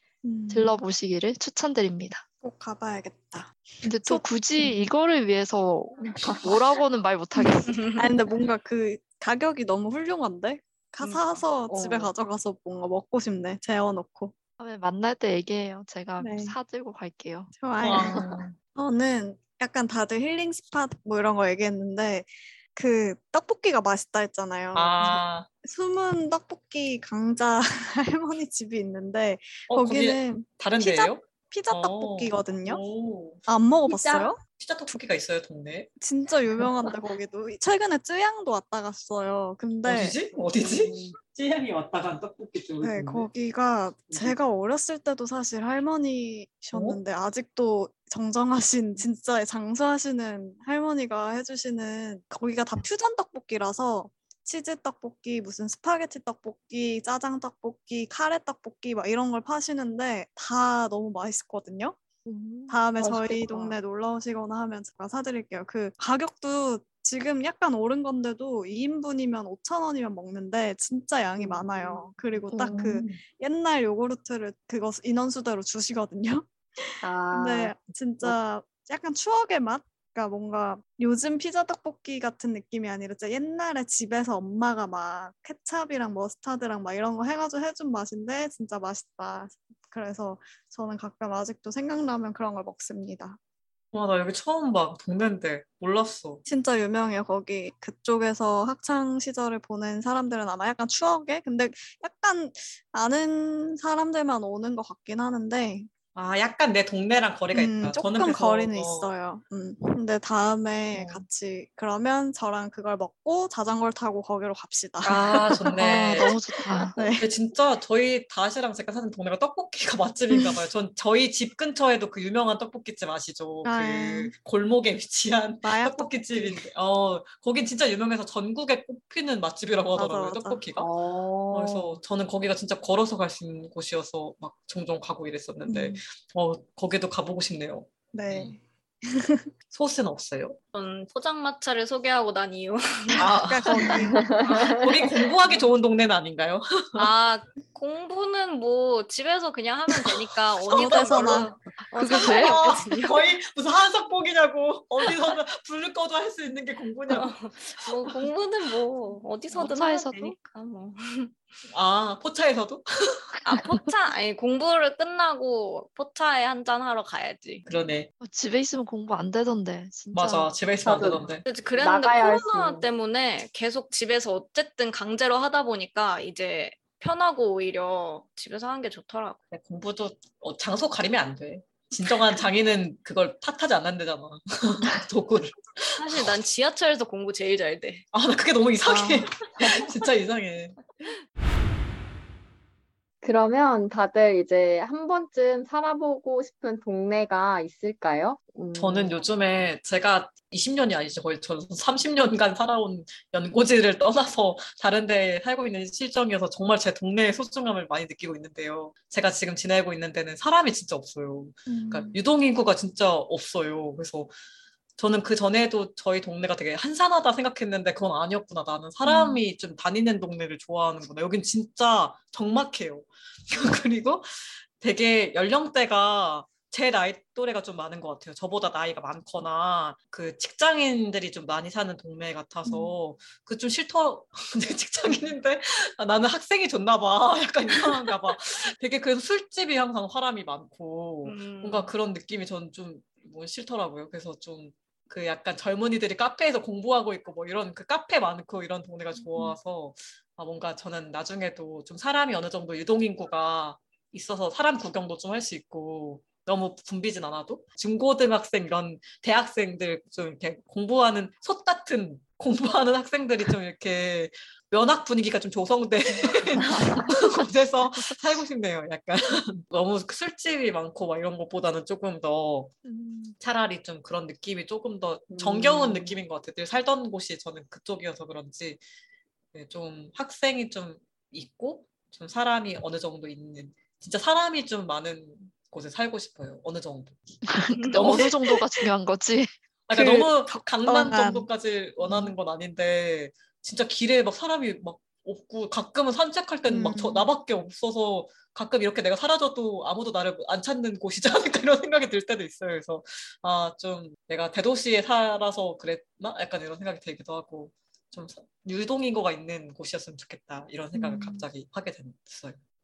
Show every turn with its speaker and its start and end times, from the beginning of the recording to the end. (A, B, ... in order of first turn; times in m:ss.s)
0:00.2-0:00.8 A
0:00.5-0:02.2 B
0:02.4-0:04.7 A
0:03.8-0:07.8 B
0:06.0-0:06.6 C
0:07.7-0:08.0 D
0:08.0-0:14.3 A
0:11.0-0:12.1 C
0:14.6-0:17.5 B
0:16.2-0:16.6 A
0:17.5-0:32.8 A
0:17.8-0:18.6 E
0:17.9-0:18.2 C
0:24.7-0:25.5 E
0:29.7-0:33.4 E
0:33.5-0:34.4 A
0:33.9-0:34.3 C
0:34.4-0:35.9 E
0:36.0-0:40.2 A
0:39.8-0:43.3 E
0:40.6-0:41.2 C
0:42.8-1:02.0 A
0:44.1-0:44.4 E
0:46.7-0:47.0 E
1:02.2-1:02.8 B
1:02.7-1:33.4 A
1:03.0-1:03.8 C
1:11.4-1:12.0 C
1:12.5-1:13.0 B
1:12.6-1:13.2 C
1:17.0-1:18.4 C
1:33.9-1:36.4 E
1:36.5-1:45.9 A
1:46.2-1:49.1 E
1:47.5-1:56.4 A
1:50.9-1:51.2 E
1:55.0-2:10.9 E
1:55.8-1:57.0 B
1:56.9-1:57.3 A
2:00.3-2:00.6 A
2:03.6-2:04.3 A
2:05.6-2:06.6 A
2:09.9-2:10.6 A
2:10.8-2:12.0 C
2:11.5-2:18.6 E
2:15.7-2:16.0 A
2:18.1-2:19.5 A
2:19.7-2:20.6 E
2:20.7-2:24.8 D
2:23.2-2:24.3 A
2:23.2-2:24.0 E
2:24.1-2:25.6 C
2:24.5-2:27.1 E
2:27.0-2:33.2 D
2:30.7-2:31.5 A
2:30.8-2:31.4 E
2:31.9-2:32.6 B
2:32.1-2:38.3 E
2:37.1-2:41.6 D
2:39.6-2:40.4 B
2:41.7-2:43.4 E
2:43.4-2:47.6 D
2:43.6-2:43.8 B
2:47.6-2:48.1 E
2:48.2-2:50.5 B
2:50.1-2:51.5 E
2:50.8-2:52.8 C
2:51.4-2:59.4 D
2:59.5-3:06.4 E
3:06.0-3:08.0 D
3:08.1-3:10.8 E
3:13.2-3:19.2 C
3:18.8-3:34.3 E
3:31.7-3:32.2 A
3:35.0-4:32.7 E
3:39.0-3:39.4 A
3:52.6-3:52.9 A
4:01.2-4:01.9 D
4:26.7-4:26.9 A
4:32.8-4:33.4 B
4:33.4-4:38.8 E
4:35.3-4:36.2 C
4:39.5-4:47.4 E
4:47.4-4:49.6 B
4:47.8-4:48.0 D
4:47.9-4:48.4 E
4:49.9-5:12.6 E
4:49.9-4:51.5 A
4:52.0-4:52.3 A
4:56.7-4:57.3 A
5:10.9-5:11.5 A